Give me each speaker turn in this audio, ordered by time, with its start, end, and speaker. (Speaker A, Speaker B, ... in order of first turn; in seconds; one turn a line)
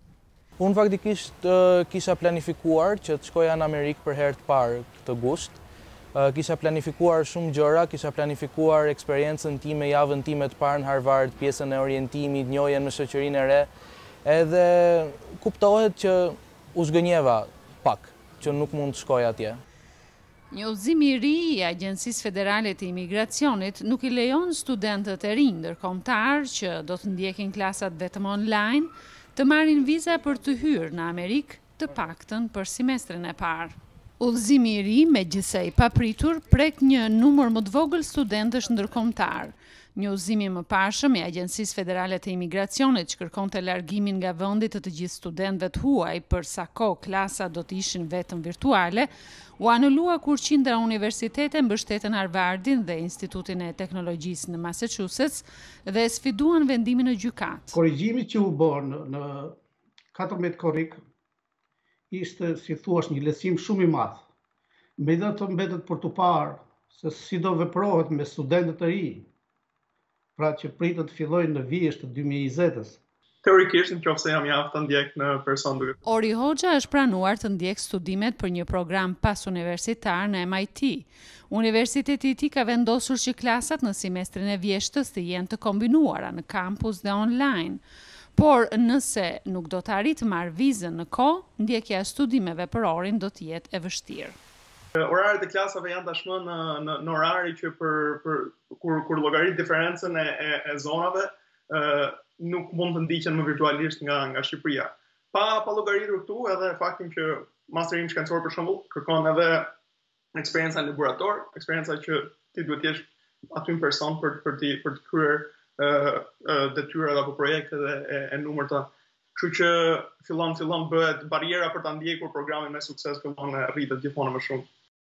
Speaker A: 0.6-5.6
Speaker A: 6.1-13.7
Speaker A: 14.2-19.6
Speaker B: 20.5-57.8
Speaker C: 57.7-59.5
Speaker C: 60.1-61.0
Speaker C: 62.1-64.2
Speaker C: 65.0-69.3
Speaker C: 70.4-73.0
Speaker D: 73.4-76.0
Speaker B: 76.1-87.8
Speaker B: 88.3-94.4
Speaker D: 95.0-109.7
Speaker D: 110.4-113.0
Speaker D: 113.5-124.7